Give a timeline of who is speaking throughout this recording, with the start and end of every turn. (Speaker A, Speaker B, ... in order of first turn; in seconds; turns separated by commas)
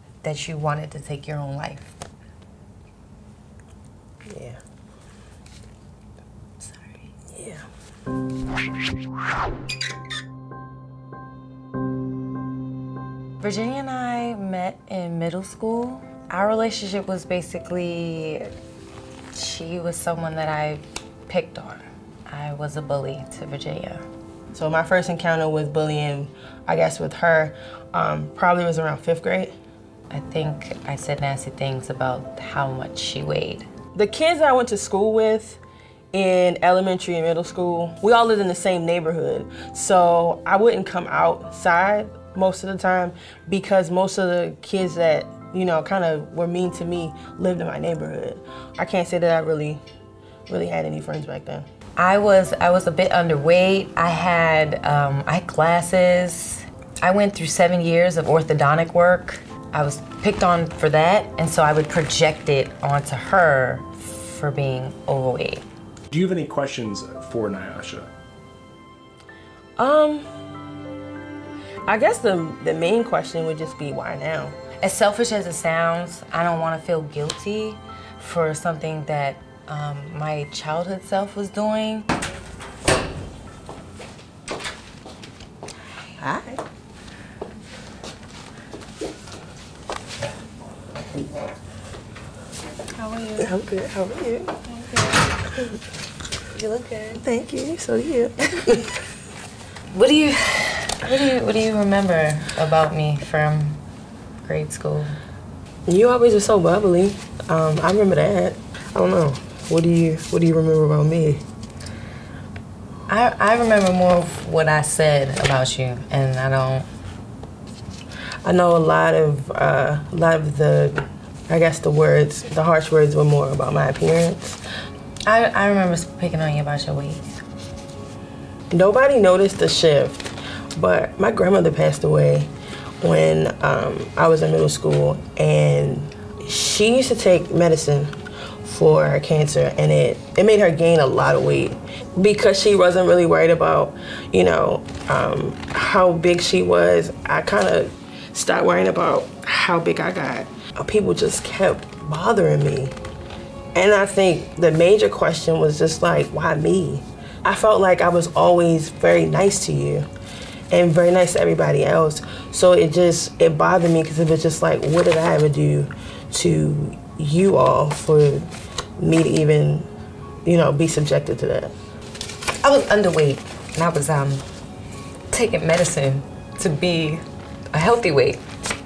Speaker A: 0.2-1.9, Speaker B: 4.3-4.6, Speaker A: 6.6-7.1, Speaker B: 7.3-7.7, Speaker A: 13.4-18.5, Speaker A: 19.3-24.0, Speaker B: 24.5-29.5, Speaker A: 30.1-33.7, Speaker B: 34.0-35.6, Speaker B: 36.1-49.8, Speaker B: 50.5-51.7, Speaker A: 52.0-65.6, Speaker C: 66.1-68.1, Speaker B: 69.8-70.3, Speaker B: 71.9-74.5, Speaker A: 74.8-82.1, Speaker B: 86.2-86.6, Speaker A: 93.0-93.5, Speaker B: 93.4-94.6, Speaker A: 94.7-95.3, Speaker A: 96.5-97.2, Speaker B: 97.2-99.0, Speaker A: 99.9-103.8, Speaker A: 104.5-105.2, Speaker B: 105.9-111.4, Speaker A: 113.1-116.9, Speaker B: 118.4-124.6, Speaker A: 125.3-127.3, Speaker B: 128.7-132.5, Speaker B: 133.0-138.1, Speaker B: 138.6-152.9, Speaker B: 153.8-160.1, Speaker B: 160.7-169.9, Speaker B: 170.4-171.7, Speaker A: 172.6-174.4, Speaker A: 175.3-177.2, Speaker A: 177.7-178.4